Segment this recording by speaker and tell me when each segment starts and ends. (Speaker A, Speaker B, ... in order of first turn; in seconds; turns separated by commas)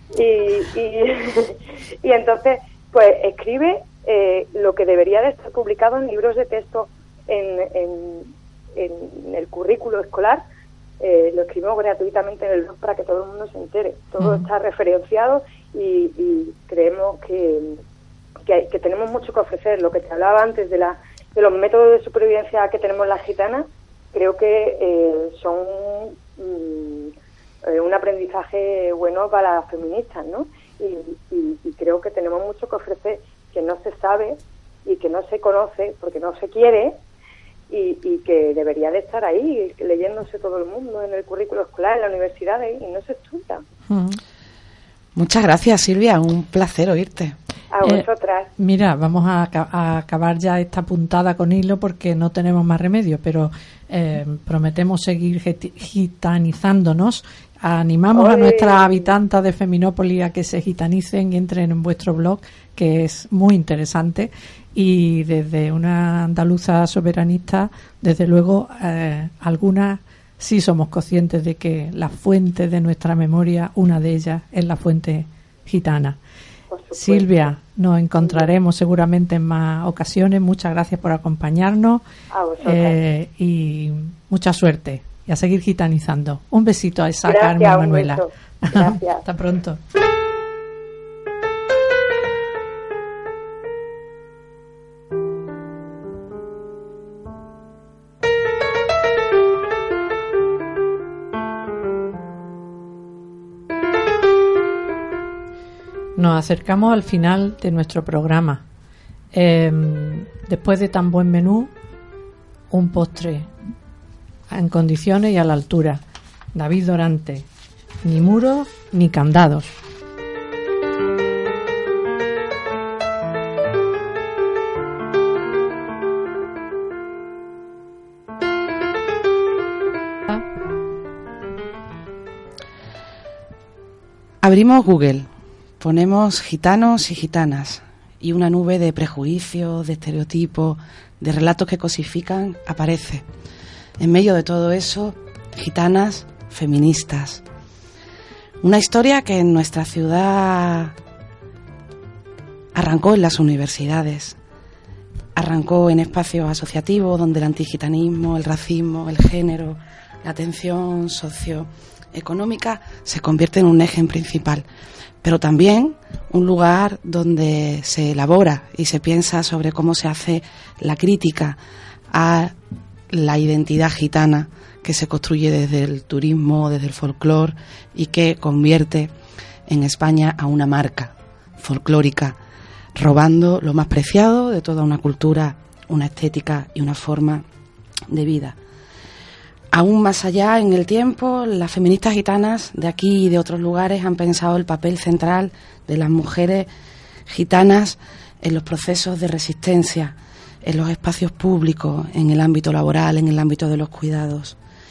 Speaker A: 0.1-10.4, Speaker A: 11.0-17.8, Speaker B: 14.2-14.5, Speaker A: 18.4-37.0, Speaker A: 37.7-43.6, Speaker B: 43.9-44.2, Speaker C: 45.2-47.4, Speaker A: 47.7-48.5, Speaker B: 48.6-76.2, Speaker A: 58.1-59.1, Speaker A: 76.7-77.6, Speaker B: 76.9-82.0, Speaker A: 78.2-78.5, Speaker A: 82.3-83.0, Speaker B: 82.6-89.8, Speaker A: 87.2-89.2, Speaker B: 106.2-108.6, Speaker B: 109.3-111.7, Speaker B: 112.7-113.5, Speaker B: 114.5-116.0, Speaker B: 116.5-117.5, Speaker B: 118.0-119.8, Speaker C: 134.4-135.3, Speaker C: 135.8-143.2, Speaker C: 144.0-147.4, Speaker C: 148.6-150.9, Speaker C: 152.8-154.4, Speaker C: 155.4-164.7, Speaker C: 165.2-171.6, Speaker C: 172.1-172.6, Speaker C: 173.1-179.1, Speaker C: 179.7-182.4, Speaker C: 183.0-187.4, Speaker C: 188.1-188.6, Speaker C: 189.7-196.7, Speaker C: 197.3-204.6